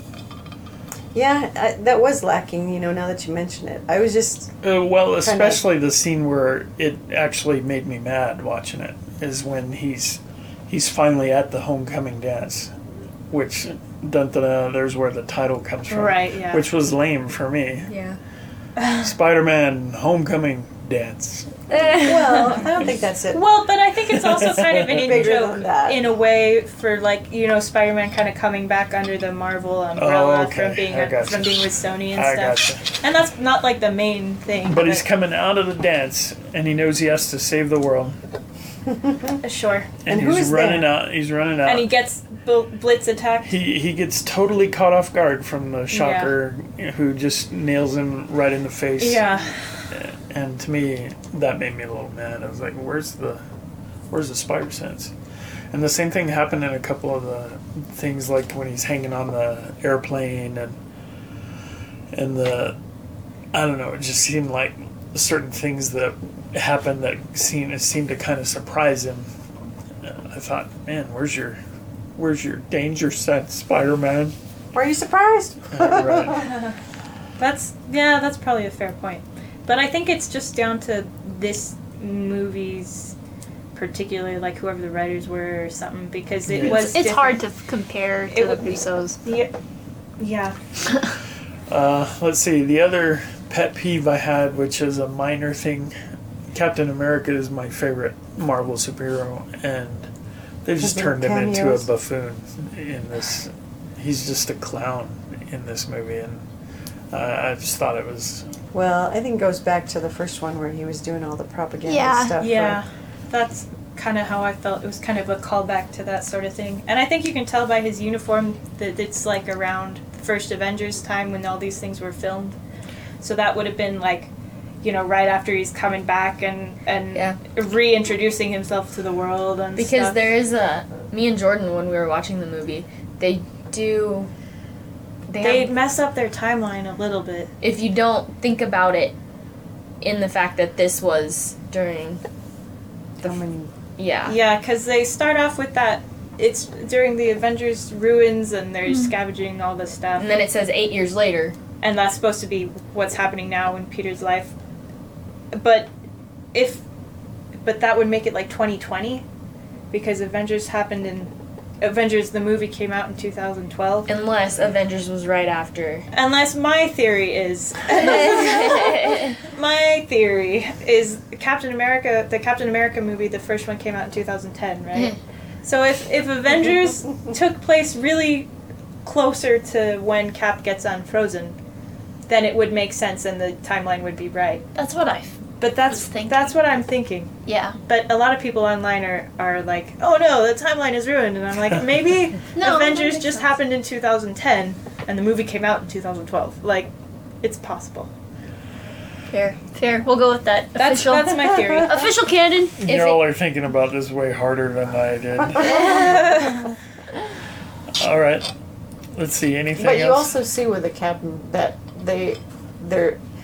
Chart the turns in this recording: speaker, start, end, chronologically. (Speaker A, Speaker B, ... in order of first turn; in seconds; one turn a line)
Speaker A: 1.1-4.5
Speaker B: 4.6-12.8
Speaker A: 5.2-5.6
Speaker B: 13.3-17.9
Speaker C: 15.9-16.6
Speaker D: 17.9-18.2
Speaker C: 18.8-19.1
Speaker B: 18.9-21.9
Speaker D: 21.7-22.6
Speaker A: 22.0-23.5
Speaker C: 23.3-35.0
Speaker B: 24.1-25.4
Speaker A: 24.9-26.1
Speaker B: 29.9-33.0
Speaker B: 34.6-38.2
Speaker A: 38.9-39.4
Speaker C: 39.4-39.9
Speaker B: 40.0-41.9
Speaker A: 40.1-41.0
Speaker C: 41.6-43.6
Speaker B: 43.4-49.2
Speaker C: 45.9-46.3
Speaker C: 49.0-49.6
Speaker B: 49.9-53.4
Speaker B: 54.1-55.1
Speaker B: 55.7-60.8
Speaker B: 62.1-62.8
Speaker B: 63.5-69.3
Speaker B: 70.0-71.6
Speaker B: 72.2-74.3
Speaker A: 74.7-76.5
Speaker B: 75.7-76.5
Speaker C: 76.3-76.8
Speaker C: 77.4-83.1
Speaker C: 83.7-87.4
Speaker B: 86.5-87.0
Speaker E: 86.6-89.2
Speaker C: 88.3-89.5
Speaker C: 90.2-90.6
Speaker B: 91.7-96.0
Speaker B: 96.5-100.1
Speaker B: 100.6-106.4
Speaker A: 100.8-101.9
Speaker B: 107.1-108.5
Speaker A: 108.7-112.8
Speaker E: 111.8-112.3
Speaker C: 112.4-122.5
Speaker C: 123.2-124.3
Speaker C: 124.8-130.3
Speaker D: 129.8-134.3
Speaker D: 135.3-135.7
Speaker C: 135.4-137.5
Speaker D: 137.6-139.2
Speaker D: 140.0-142.2
Speaker A: 143.2-143.7
Speaker D: 144.0-144.4
Speaker C: 144.2-150.3
Speaker E: 148.9-149.1
Speaker D: 150.2-151.6
Speaker C: 151.8-154.5
Speaker C: 155.5-155.9
Speaker C: 156.5-156.8
Speaker C: 157.6-159.2
Speaker C: 159.9-164.1
Speaker D: 164.1-166.1
Speaker C: 166.1-178.5
Speaker D: 167.9-169.4
Speaker C: 179.0-181.6
Speaker C: 182.3-184.6
Speaker E: 184.7-186.6
Speaker C: 185.6-187.3
Speaker E: 187.4-187.8
Speaker C: 187.8-198.1
Speaker E: 192.5-193.6
Speaker E: 199.3-203.2
Speaker C: 200.7-202.1
Speaker B: 202.8-206.4
Speaker A: 205.7-206.2
Speaker B: 208.0-208.5
Speaker B: 209.1-210.3
Speaker A: 209.7-213.2